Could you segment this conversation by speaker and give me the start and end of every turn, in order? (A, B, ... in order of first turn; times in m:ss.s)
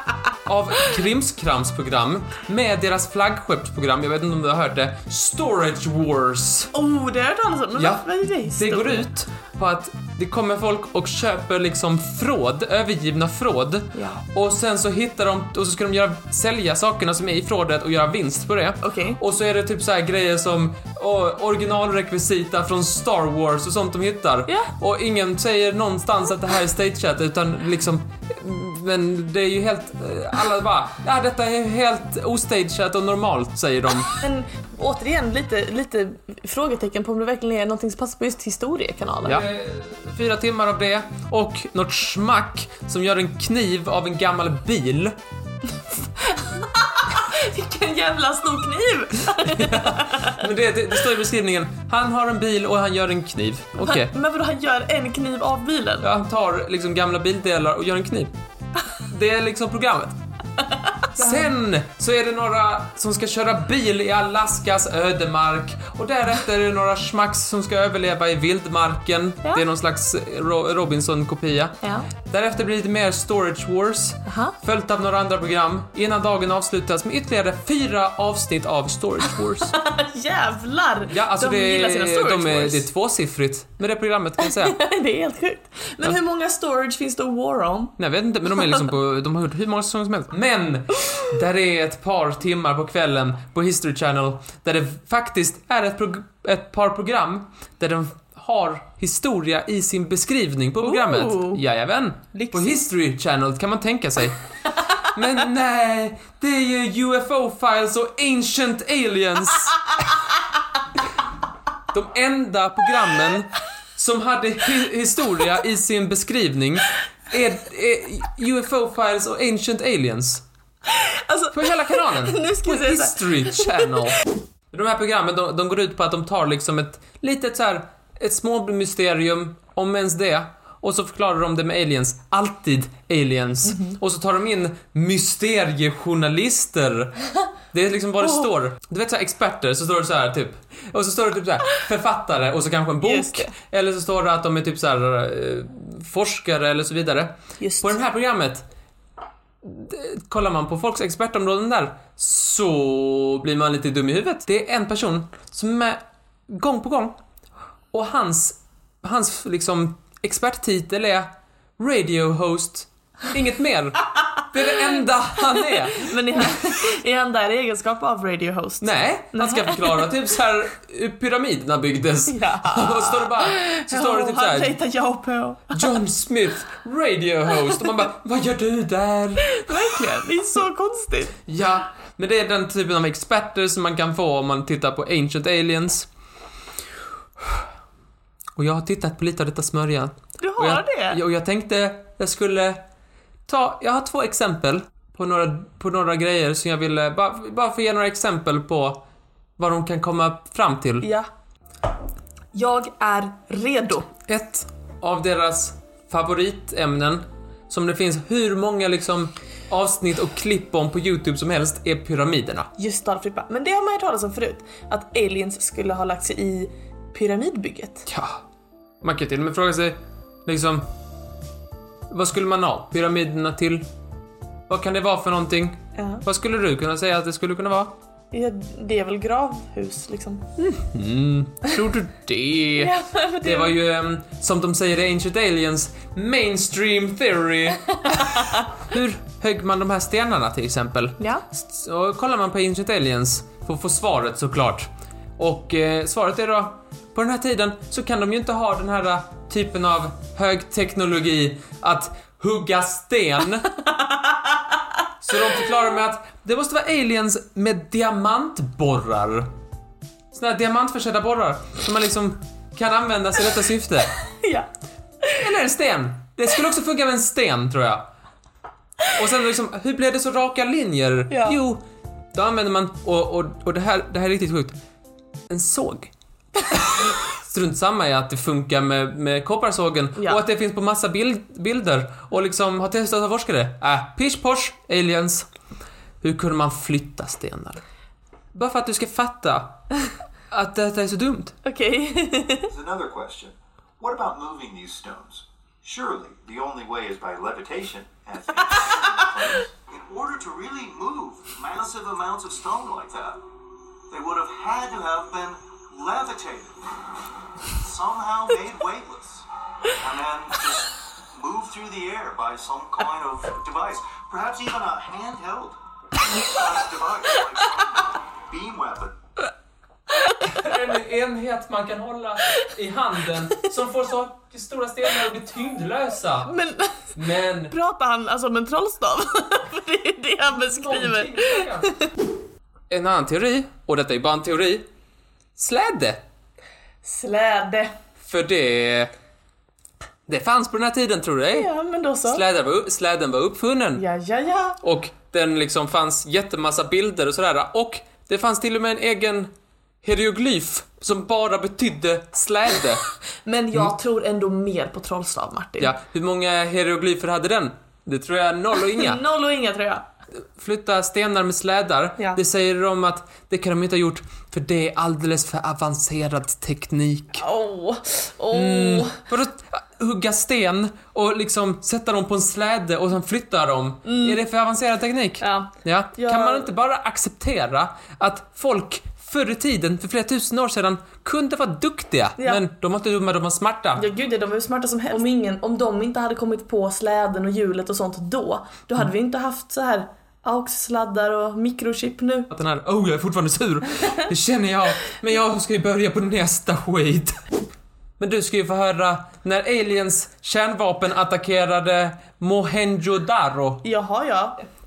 0:00.4-0:06.7 A
0:06.7-0:09.0 B
0:07.8-0:34.1 A
0:13.9-0:14.2 B
0:18.8-0:19.2 B
0:34.1-0:39.4 B
0:39.2-0:45.2 A
0:46.2-0:50.5 B
0:49.4-0:54.1 A
0:53.8-0:56.1 B
0:56.0-0:58.3 A
0:59.0-1:00.2 A
1:01.0-1:01.5 B
1:01.1-1:19.8 A
1:11.8-1:12.1 B
1:14.3-1:14.6 B
1:19.7-1:22.9 B
1:21.1-1:24.8 A
1:24.4-1:28.0 B
1:28.0-1:44.4 A
1:40.8-1:41.6 B
1:42.3-1:42.8 B
1:45.0-1:50.1 A
1:51.9-2:00.4 A
2:00.9-2:04.0 B
2:01.5-2:04.2 A
2:04.7-2:17.2 A
2:13.7-2:14.0 B
2:17.7-2:28.7 A
2:23.0-2:23.5 B
2:27.6-2:28.0 B
2:29.6-2:37.2 A
2:37.9-2:46.5 A
2:45.5-2:50.1 B
2:48.8-2:54.8 A
2:52.3-2:56.0 B
2:55.7-2:59.9 A
2:59.5-3:01.4 B
3:01.5-3:06.1 A
3:08.6-3:12.8 A
3:10.4-3:11.2 B
3:13.5-3:19.0 A
3:19.6-3:21.1 A
3:21.0-3:21.3 B
3:22.5-3:24.1 B
3:24.3-3:32.7 A
3:32.8-3:38.0 B
3:38.1-3:38.4 A
3:39.0-3:40.9 A
3:42.1-3:43.9 A
3:44.7-3:47.9 A
3:46.0-3:46.2 B
3:48.3-3:50.4 B
3:50.6-4:13.7 A
3:52.8-3:53.7 B
3:58.1-3:58.6 B
4:15.2-4:19.5 A
4:20.3-4:24.1 A
4:24.3-4:24.7 B
4:25.4-4:28.1 A
4:29.1-4:31.8 A
4:31.3-4:31.6 B
4:32.3-4:34.8 A
4:35.5-4:36.1 A
4:36.7-4:45.5 A
4:46.2-4:47.8 A
4:48.5-4:49.8 A
4:50.5-4:51.6 A
4:51.6-4:52.7 B
4:52.7-5:03.5 C
5:04.1-5:15.8 C
5:16.3-5:19.2 C
5:20.4-5:26.5 A
5:26.5-5:27.1 B
5:27.2-5:27.7 A
5:27.7-5:32.1 B
5:30.5-5:31.9 A
5:32.9-5:34.8 A
5:35.6-5:36.2 A
5:37.0-5:37.9 B
5:38.2-5:39.1 A
5:40.3-5:41.7 A
5:41.5-5:42.4 B
5:42.2-5:44.0 A
5:44.0-5:44.8 B
5:44.8-5:49.5 A
5:50.0-5:53.0 A
5:53.4-5:55.9 B
5:55.8-5:59.2 A
5:58.8-6:00.0 B
6:00.6-6:07.4 A
6:07.4-6:09.2 B
6:08.5-6:24.0 A
6:14.1-6:14.4 B
6:15.4-6:16.7 B
6:24.0-6:32.5 B
6:32.5-6:37.4 A
6:38.2-6:43.8 A
6:43.8-6:44.6 B